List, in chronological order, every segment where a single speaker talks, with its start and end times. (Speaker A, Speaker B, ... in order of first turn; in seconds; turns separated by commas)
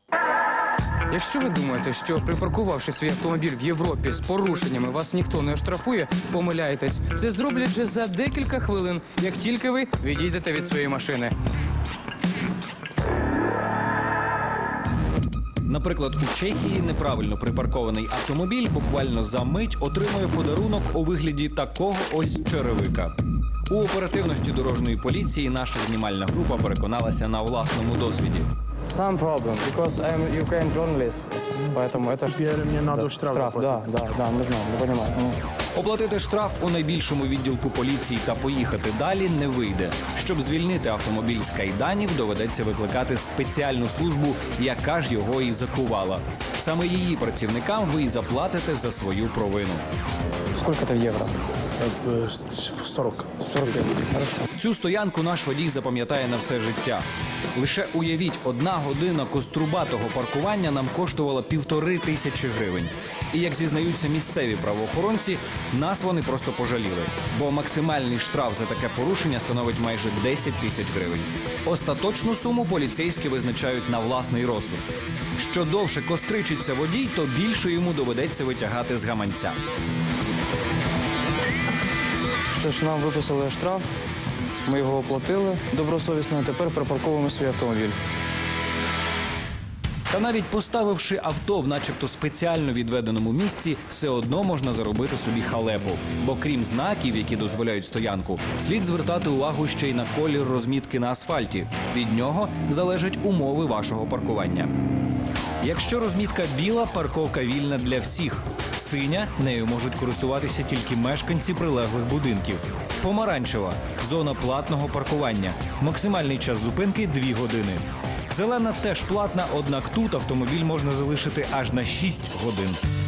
Speaker A: 1.1-11.3, Speaker B: 15.7-23.1, Speaker B: 23.7-28.5, Speaker A: 28.9-35.4, Speaker C: 32.4-33.8, Speaker B: 35.7-49.8, Speaker A: 50.5-51.3, Speaker C: 51.8-53.3, Speaker A: 53.4-54.4, Speaker B: 54.5-57.0, Speaker B: 57.5-74.8, Speaker B: 75.4-79.5, Speaker A: 82.5-84.0, Speaker A: 84.7-88.0, Speaker B: 90.1-104.7, Speaker B: 105.6-122.8